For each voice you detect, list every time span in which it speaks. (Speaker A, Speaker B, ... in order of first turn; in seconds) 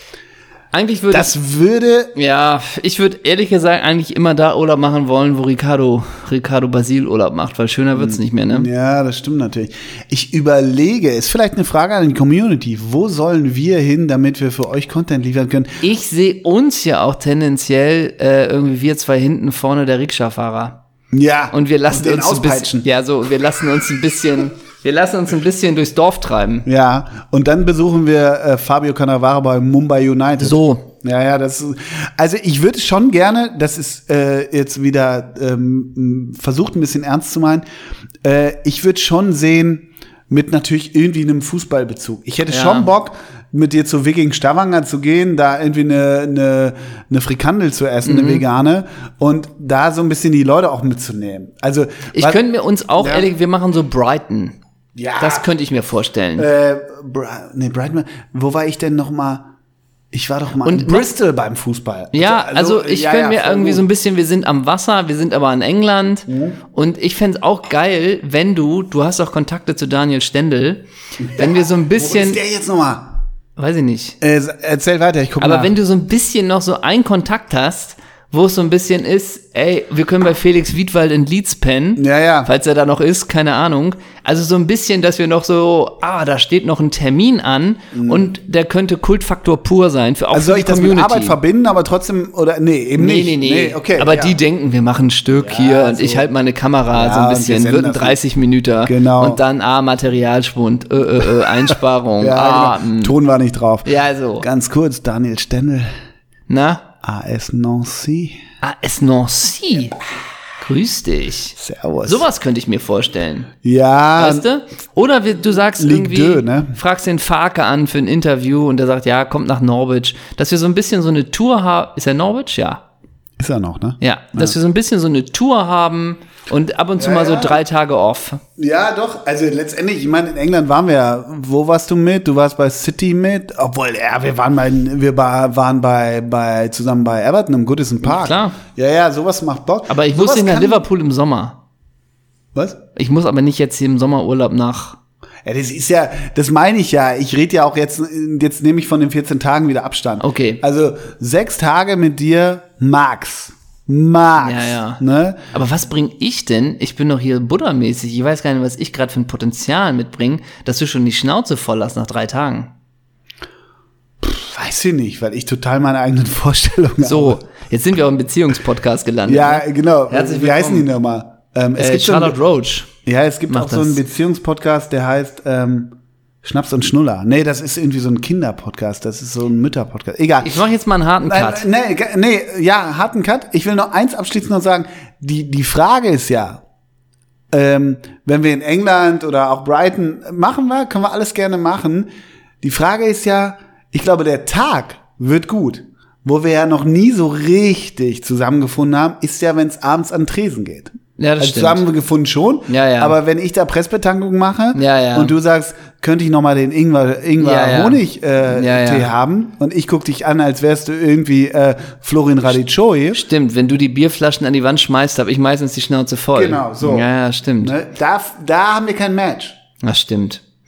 Speaker A: 0.7-1.3, 2.1-8.7, 15.8-20.8, 21.5-26.7, 30.4-30.9, 42.5-42.9, 48.0-48.4, 52.1-54.6, 55.2-56.5, 60.6-61.1, 62.1-72.4, 73.6-74.2, 75.4-91.4, 93.0-103.1, 103.8-104.5, 106.5-106.8, 108.6-110.0, 110.6-113.5, 114.2-122.8, 124.0-128.4, 138.0-138.6, 139.9-141.6, 143.0-145.0, 150.2-150.6, 154.4-155.0, 155.5-162.7, 167.0-170.9, 171.8-172.9, 173.5-174.0, 180.4-181.7, 201.2-201.8, 202.7-203.2, 204.8-205.3, 207.4-209.1, 213.1-217.8, 219.8-220.4
Speaker B: 1.1-2.1, 8.0-15.8, 21.1-22.9, 26.7-37.6, 38.2-52.4, 53.0-53.3, 55.0-55.5, 56.4-59.5, 60.1-63.9, 66.3-66.6, 71.2-73.2, 74.2-75.7, 82.0-82.5, 87.9-88.3, 90.3-94.4, 95.4-96.3, 96.9-98.2, 98.8-99.4, 102.2-105.9, 107.0-108.4, 111.6-112.3, 113.6-114.5, 115.8-116.8, 123.4-124.6, 127.0-127.6, 128.6-140.8, 142.6-142.8, 145.4-155.4, 164.2-167.4, 169.3-172.4, 173.1-180.6, 181.3-186.6, 187.5-192.1, 192.6-213.2, 216.3-219.6